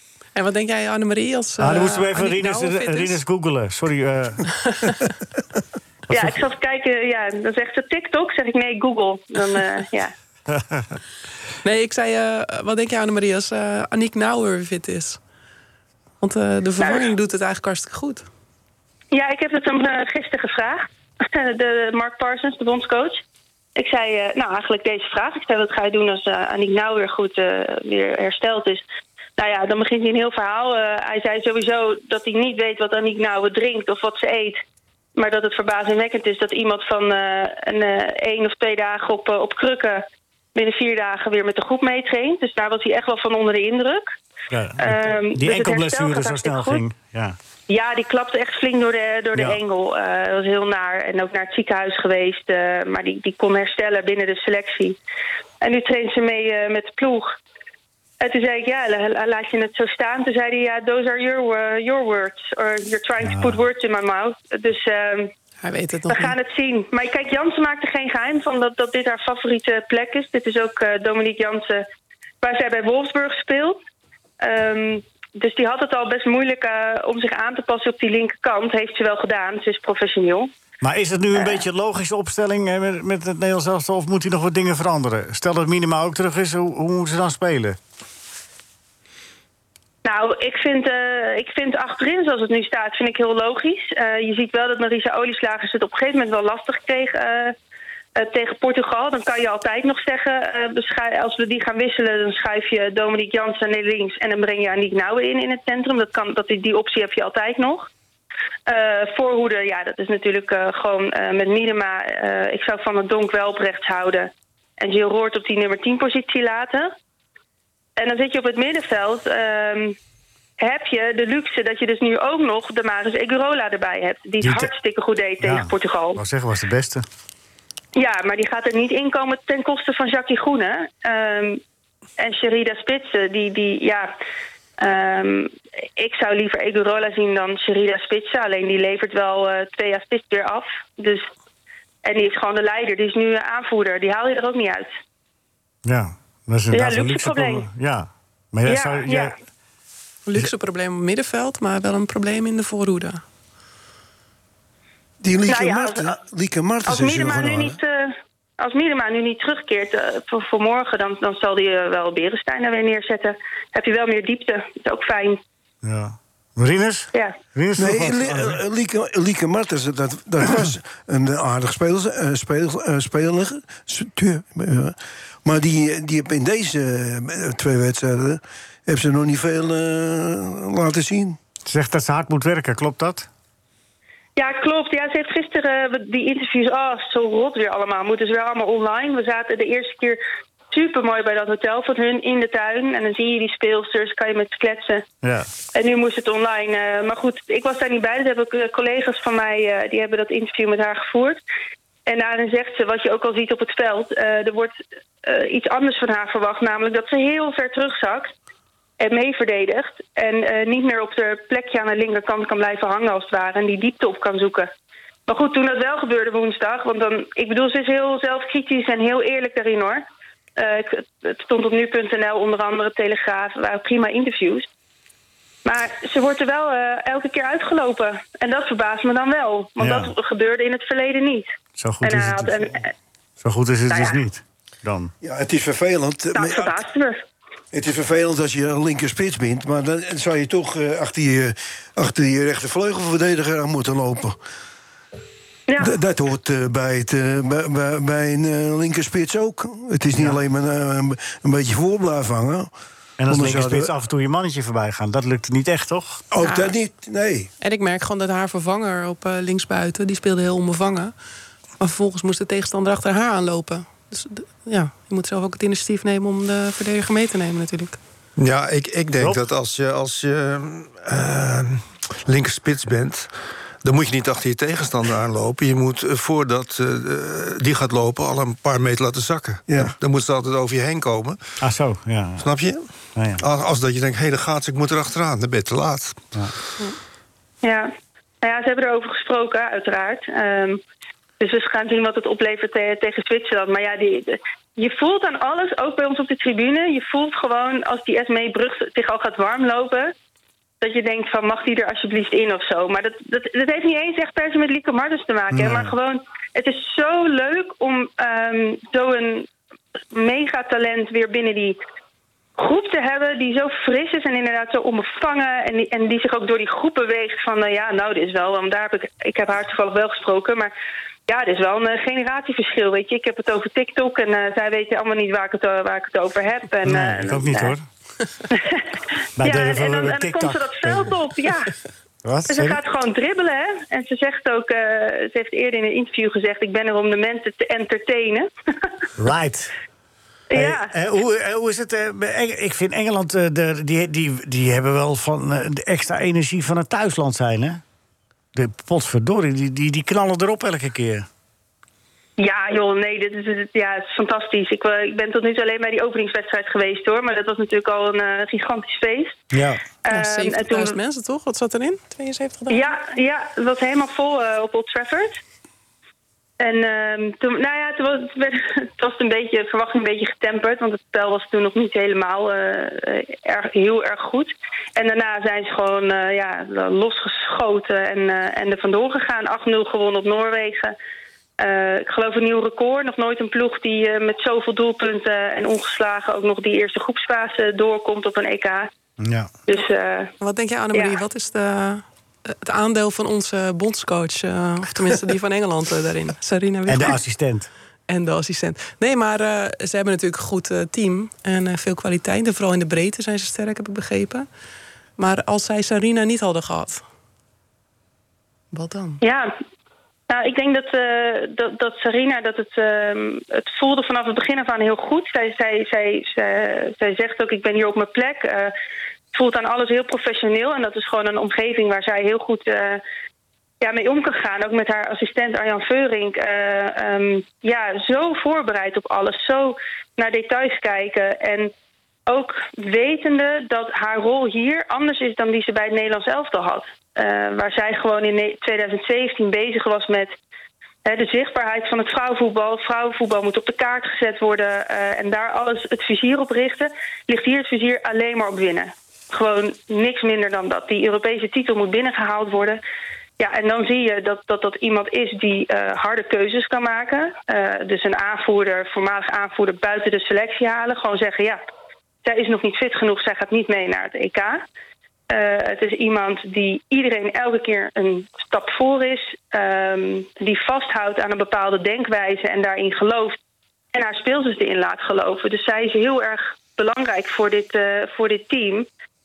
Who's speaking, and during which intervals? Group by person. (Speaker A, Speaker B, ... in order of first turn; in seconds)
Speaker A: 0.3-3.2, 4.7-5.1, 11.6-15.2, 16.2-18.2, 65.6-66.3, 150.3-153.2, 256.4-256.8, 257.6-261.1, 261.8-268.0, 360.1-362.8, 390.4-397.2, 398.1-404.5, 405.2-407.0, 408.7-409.2
Speaker B: 1.6-4.5, 10.5-11.0, 44.5-47.4, 49.4-49.6, 63.2-63.6, 80.8-87.8, 124.4-124.7, 125.4-127.0, 145.8-149.3, 165.8-168.6, 181.7-183.3, 195.2-195.5, 229.8-230.1, 231.8-232.7, 233.4-235.1, 250.1-250.4, 253.2-256.2, 281.6-282.4, 283.1-283.4, 305.5-305.9, 326.9-327.8, 329.4-331.1, 332.2-332.8, 339.2-339.7, 340.5-347.8, 348.5-351.3, 359.5-359.8, 389.2-389.5, 396.9-397.7
Speaker C: 6.1-10.1, 16.8-17.1, 19.1-23.2, 23.8-28.8, 29.4-34.6, 35.2-44.2, 44.8-46.8, 47.7-55.0, 55.6-57.4, 58.2-65.3, 66.1-71.8, 72.4-73.8, 74.4-80.5, 81.3-81.6, 90.0-97.5, 98.2-107.9, 108.7-116.9, 118.0-120.0, 120.6-126.2, 128.0-131.6, 132.2-134.1, 134.8-141.3, 142.0-144.9, 146.7-147.7, 148.7-149.3, 155.5-156.2, 156.9-165.4, 184.4-190.2, 190.7-195.1, 195.8-201.4, 202.1-208.3, 209.0-214.7, 215.3-220.0, 220.6-224.7, 225.7-232.9, 233.9-234.2, 236.3-237.2, 245.7-245.9, 287.6-287.9, 288.4-290.8, 291.4-300.1, 300.8-309.5, 310.1-311.8, 312.6-320.7, 321.3-327.8, 328.5-328.9, 329.4-331.7, 332.5-338.5, 340.5-340.9, 352.4-359.4, 360.1-361.0, 362.7-365.4, 366.6-380.9, 381.6-388.9, 389.7-390.3, 390.9-391.2, 409.2-409.5, 410.3-418.7, 419.3-423.0, 423.8-431.7, 432.3-440.3, 441.1-452.8, 453.4-461.6, 462.2-464.6, 465.3-473.4, 473.9-478.9
Speaker D: 155.2-157.8, 167.8-181.4, 235.2-236.8, 237.7-244.4, 245.8-252.7, 253.3-253.9, 256.3-257.5, 279.7-279.9
Speaker E: 268.4-273.3, 273.8-281.4, 282.4-282.9, 283.4-286.2